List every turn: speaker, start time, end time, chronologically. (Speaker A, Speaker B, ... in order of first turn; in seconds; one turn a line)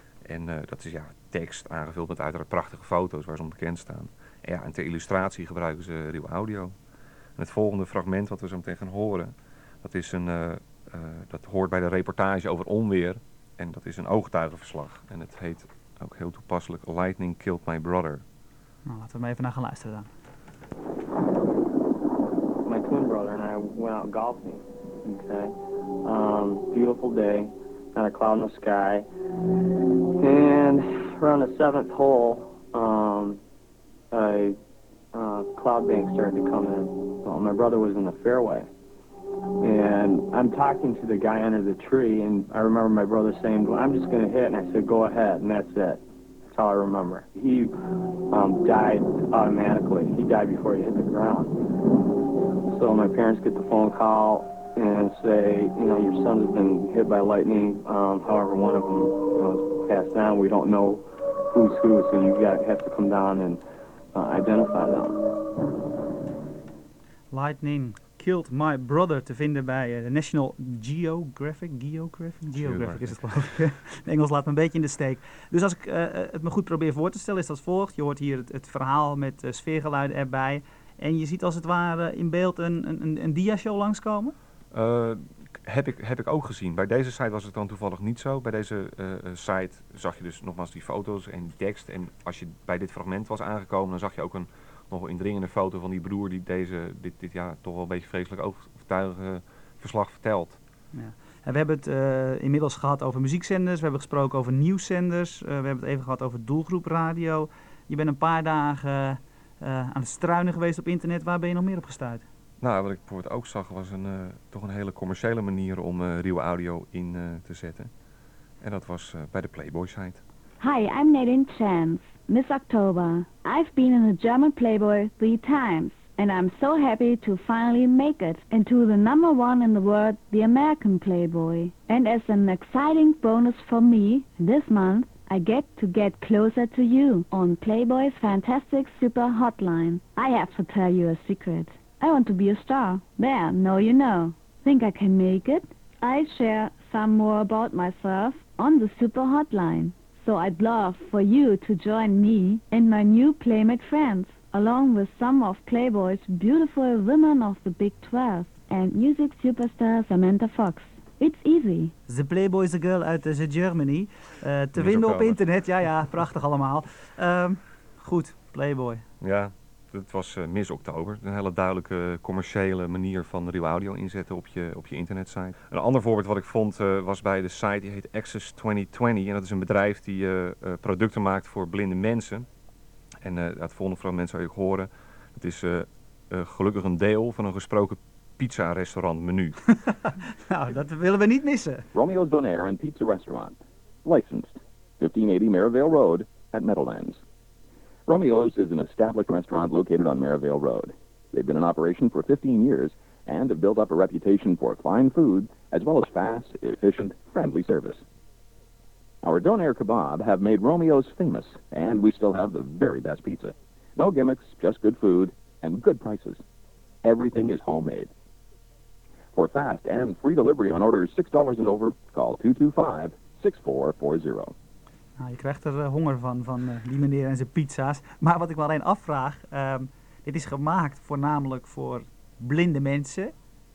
Speaker A: 0.2-6.8
Speaker A: 7.4-18.2
Speaker B: 18.9-20.1
Speaker C: 22.6-29.1
Speaker C: 30.2-33.4
Speaker C: 34.1-34.6
Speaker C: 35.1-38.7
Speaker C: 39.6-47.7
Speaker C: 48.3-51.6
Speaker C: 52.7-63.6
Speaker C: 64.1-65.2
Speaker B: 67.3-84.3
Speaker A: 72.5-73.2
Speaker A: 84.7-100.6
Speaker B: 100.9-112.2
Speaker A: 112.6-117.9
Speaker A: 118.6-120.2
Speaker D: 120.6-161.9
Speaker B: 162.1-169.0
Speaker A: 164.8-165.4
Speaker A: 169.2-182.4
Speaker A: 183.2-189.6
Speaker B: 190.4-191.9
Speaker E: 191.9-197.2
Speaker E: 198.1-208.0
Speaker E: 209.2-216.4
Speaker E: 217.0-218.1
Speaker E: 219.3-224.5
Speaker B: 225.2-233.3